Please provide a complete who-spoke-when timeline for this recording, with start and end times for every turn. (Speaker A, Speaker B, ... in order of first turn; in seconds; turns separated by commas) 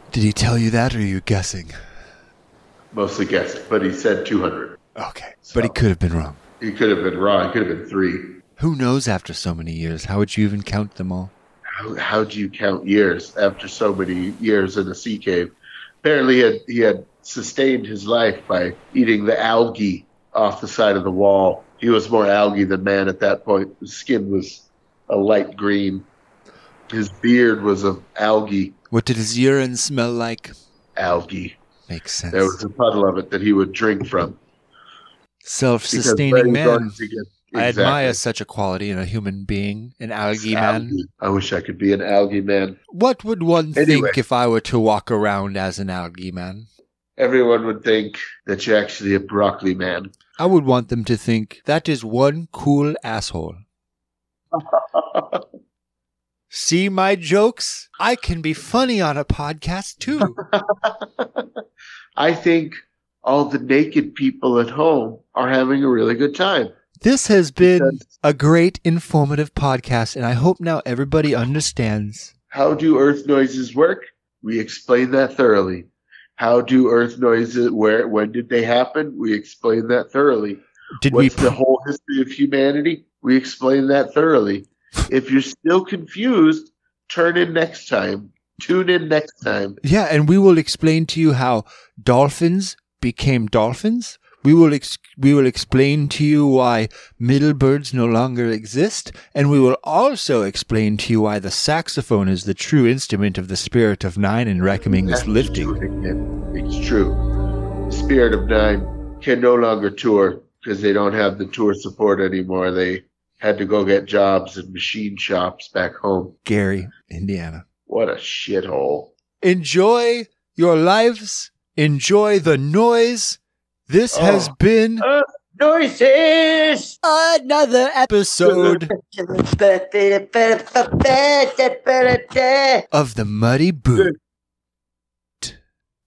Speaker A: 0.1-1.8, Speaker B: 2.9-4.8, Speaker A: 5.0-6.4, Speaker B: 5.4-5.8, Speaker B: 6.6-8.2, Speaker A: 8.6-11.3, Speaker B: 11.8-26.1, Speaker B: 26.9-28.8, Speaker A: 28.9-30.5, Speaker B: 31.0-31.6, Speaker A: 31.9-32.6, Speaker B: 32.3-34.4, Speaker A: 35.4-37.0, Speaker B: 35.9-38.2, Speaker A: 37.5-41.0, Speaker B: 40.4-42.8, Speaker A: 42.9-46.7, Speaker B: 43.8-44.2, Speaker B: 47.2-50.1, Speaker A: 50.4-53.6, Speaker B: 54.5-55.5, Speaker A: 56.5-60.4, Speaker B: 60.2-61.5, Speaker B: 62.2-66.7, Speaker A: 67.0-72.3, Speaker B: 67.6-68.0, Speaker B: 72.5-89.8, Speaker A: 81.0-81.6, Speaker A: 89.8-105.8, Speaker B: 104.9-107.2, Speaker B: 107.9-116.3, Speaker A: 116.5-117.7, Speaker B: 117.9-119.1, Speaker A: 119.4-125.0, Speaker B: 124.1-124.5, Speaker C: 125.6-127.0, Speaker A: 127.0-128.9, Speaker C: 128.5-132.8, Speaker A: 132.9-134.2